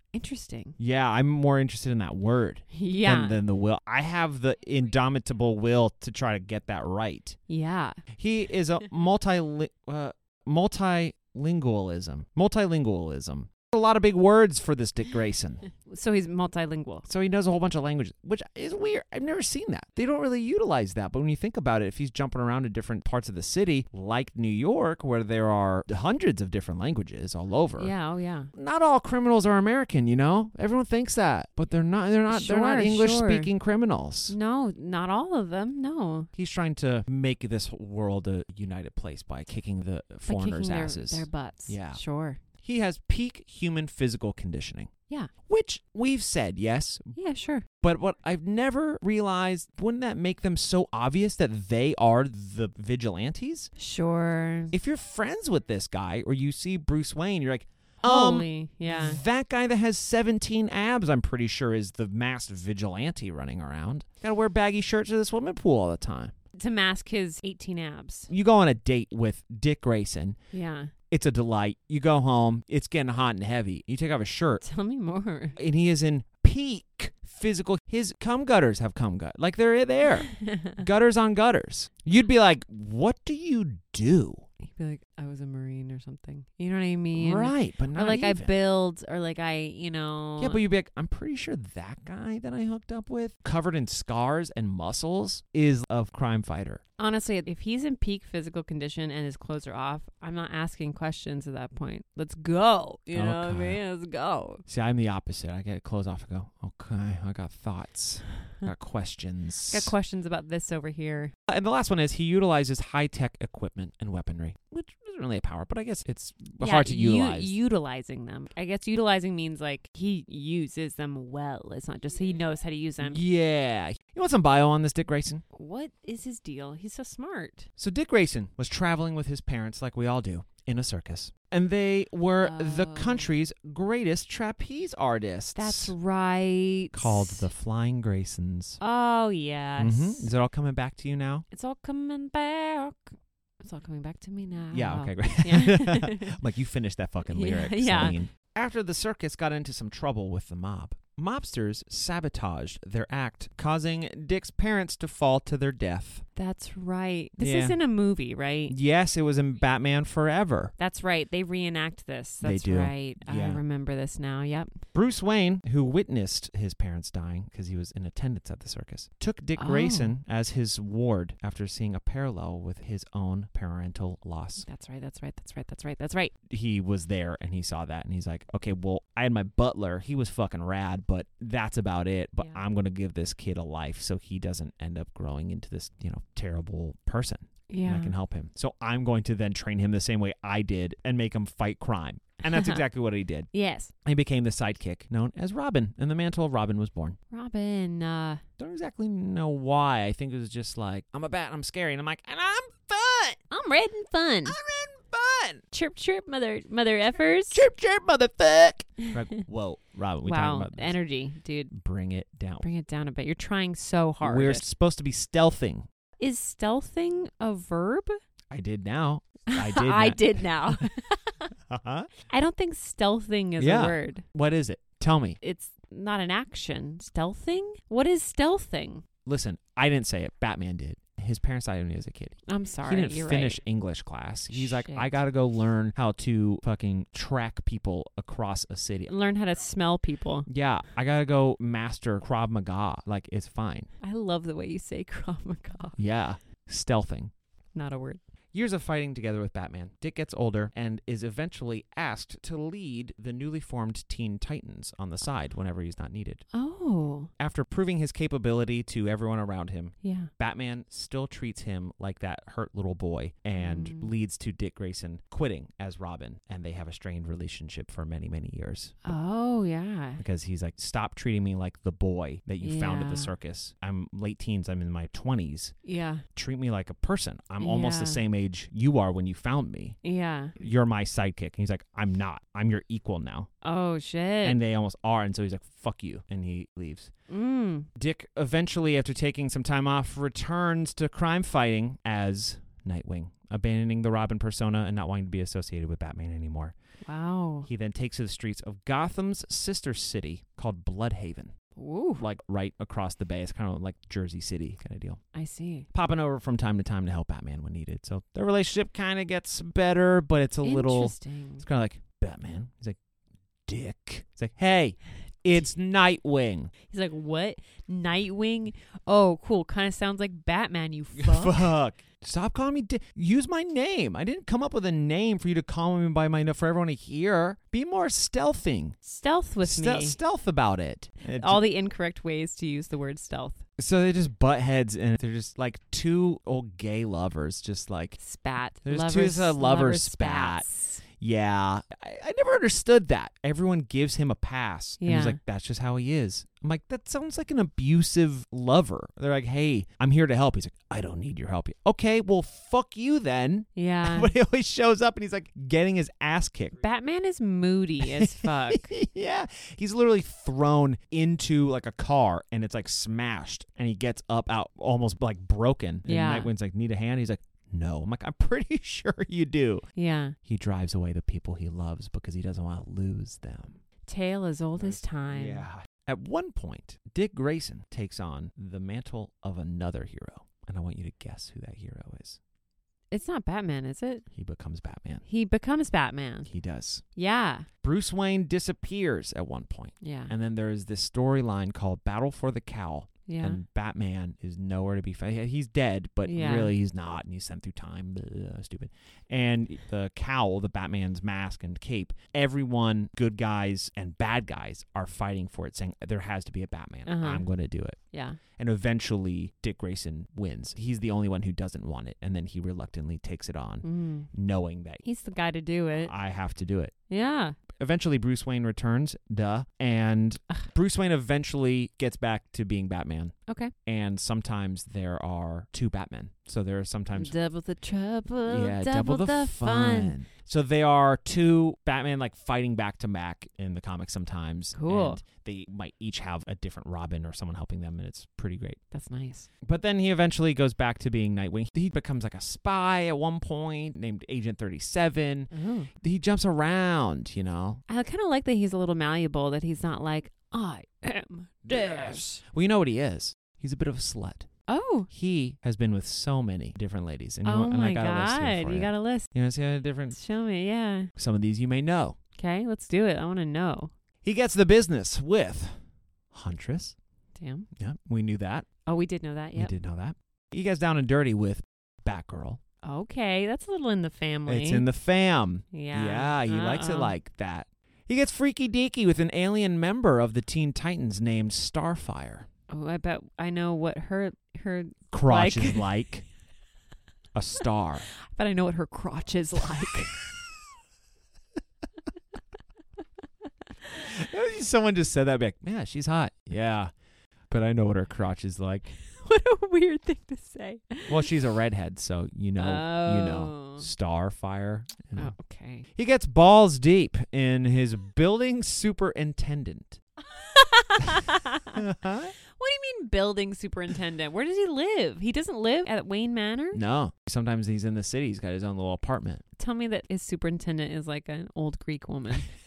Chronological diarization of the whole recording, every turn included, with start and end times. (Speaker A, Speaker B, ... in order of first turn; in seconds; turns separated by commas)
Speaker A: 0.1-0.8, Speaker B: 0.8-7.4, Speaker A: 2.7-3.4, Speaker A: 7.5-8.0, Speaker B: 8.2-15.7, Speaker A: 15.8-17.1, Speaker B: 17.1-27.9, Speaker A: 27.8-28.5, Speaker B: 28.5-34.4, Speaker A: 32.3-33.5, Speaker A: 34.3-36.3, Speaker B: 36.4-42.0, Speaker A: 40.3-42.4, Speaker B: 42.6-44.9, Speaker B: 45.5-47.2, Speaker A: 47.2-47.7, Speaker B: 47.8-53.7, Speaker A: 53.8-54.8, Speaker B: 54.7-66.3, Speaker A: 58.0-59.2, Speaker A: 66.6-68.3, Speaker B: 68.3-70.4, Speaker A: 70.5-70.9, Speaker B: 71.1-74.6, Speaker A: 74.6-75.6, Speaker B: 75.6-84.5, Speaker A: 80.2-80.8, Speaker A: 84.6-90.6, Speaker B: 87.1-88.5, Speaker B: 90.4-96.8, Speaker A: 97.0-104.6, Speaker B: 103.1-103.8, Speaker B: 104.7-109.9, Speaker A: 109.7-111.3, Speaker B: 111.5-117.5, Speaker A: 116.6-123.2, Speaker B: 123.0-125.4, Speaker A: 125.5-127.7, Speaker B: 127.8-135.9, Speaker A: 132.4-133.3, Speaker A: 135.6-137.5, Speaker B: 136.9-138.8, Speaker A: 138.8-140.3, Speaker B: 139.8-141.5, Speaker A: 141.5-146.4, Speaker B: 144.7-156.3, Speaker A: 147.3-148.2, Speaker A: 156.4-158.8, Speaker B: 157.4-157.8, Speaker B: 158.7-160.7, Speaker A: 160.8-164.7, Speaker B: 162.4-163.6, Speaker B: 164.9-174.7, Speaker A: 169.6-170.1, Speaker A: 174.6-176.3, Speaker B: 176.5-193.5, Speaker A: 187.7-188.2, Speaker A: 192.4-192.8, Speaker A: 193.5-193.9, Speaker B: 194.1-197.2, Speaker A: 197.3-198.4, Speaker B: 198.6-203.4, Speaker A: 203.5-204.6, Speaker B: 204.4-205.6, Speaker A: 205.7-207.7, Speaker B: 207.5-210.9, Speaker A: 210.2-211.7, Speaker B: 211.7-212.7, Speaker A: 212.6-214.6, Speaker B: 214.2-215.9, Speaker A: 216.2-218.1, Speaker B: 218.5-220.8, Speaker A: 219.5-221.5, Speaker B: 221.7-222.1, Speaker A: 222.3-224.2, Speaker B: 223.6-225.4, Speaker A: 225.4-229.0, Speaker B: 229.2-239.1, Speaker A: 232.5-233.6, Speaker A: 234.5-235.1, Speaker A: 239.1-240.5, Speaker B: 240.5-243.9, Speaker A: 244.0-246.0, Speaker B: 246.0-247.3, Speaker A: 247.7-248.2, Speaker B: 248.5-256.4, Speaker A: 256.5-257.3, Speaker B: 257.4-269.0, Speaker A: 260.0-260.3, Speaker A: 263.6-264.1, Speaker A: 269.1-270.2, Speaker B: 270.2-275.8, Speaker A: 272.6-273.3, Speaker A: 275.8-276.2, Speaker B: 276.4-280.0, Speaker A: 277.6-278.2, Speaker A: 280.0-280.6, Speaker B: 280.6-283.5, Speaker A: 283.6-284.6, Speaker B: 284.4-287.1, Speaker A: 287.3-287.9, Speaker B: 288.0-296.8, Speaker A: 297.0-297.7, Speaker B: 297.6-301.5, Speaker A: 301.8-302.3, Speaker B: 302.2-305.2, Speaker A: 305.3-305.9, Speaker B: 305.9-313.0, Speaker A: 310.6-311.6, Speaker B: 313.7-316.7, Speaker A: 316.9-321.7, Speaker B: 321.2-329.0, Speaker A: 329.0-330.2, Speaker B: 329.6-331.6, Speaker A: 331.3-333.6, Speaker B: 333.8-338.2, Speaker A: 338.2-341.0, Speaker B: 338.9-340.7, Speaker B: 341.2-356.8, Speaker A: 345.0-345.4, Speaker A: 353.8-354.3, Speaker A: 356.8-358.9, Speaker B: 358.0-369.9, Speaker A: 366.1-366.5, Speaker A: 370.0-370.4, Speaker B: 370.4-373.8, Speaker A: 374.1-375.7, Speaker B: 374.8-382.4, Speaker A: 383.1-384.2, Speaker B: 384.3-385.2, Speaker A: 385.2-386.5, Speaker B: 386.5-387.0, Speaker A: 387.2-387.7, Speaker B: 387.8-408.0, Speaker A: 390.0-390.3, Speaker A: 393.3-393.6, Speaker A: 396.3-396.7, Speaker A: 407.1-407.5, Speaker A: 408.1-408.4, Speaker B: 408.6-415.0, Speaker A: 413.8-414.3, Speaker A: 415.0-416.1, Speaker B: 416.0-416.9, Speaker A: 417.1-417.6, Speaker B: 417.8-423.4, Speaker A: 423.5-423.7, Speaker B: 423.9-427.3, Speaker A: 427.1-430.2, Speaker B: 428.5-438.8, Speaker A: 434.8-435.2, Speaker A: 438.9-439.5, Speaker B: 439.6-447.8, Speaker A: 445.5-445.9, Speaker A: 447.9-452.4, Speaker B: 451.7-454.5, Speaker A: 454.7-455.1, Speaker B: 455.1-460.2, Speaker A: 457.4-459.3, Speaker A: 460.1-461.1, Speaker B: 461.2-462.2, Speaker A: 462.4-463.9, Speaker B: 464.2-465.8, Speaker B: 466.3-467.0, Speaker A: 467.4-467.7, Speaker B: 467.8-468.7, Speaker A: 468.9-469.7, Speaker B: 469.6-472.6, Speaker A: 472.8-474.9, Speaker B: 474.5-482.5, Speaker A: 475.7-477.1, Speaker A: 482.7-485.9, Speaker B: 485.1-486.2, Speaker B: 487.4-488.1, Speaker A: 488.1-490.1, Speaker B: 494.0-496.9, Speaker B: 497.5-499.0, Speaker A: 499.1-501.3, Speaker B: 501.1-505.3, Speaker A: 502.6-503.9, Speaker A: 505.2-505.9, Speaker B: 506.0-510.0, Speaker A: 510.2-511.8, Speaker B: 511.7-512.4, Speaker A: 512.5-516.8, Speaker B: 516.7-519.4, Speaker A: 519.6-522.5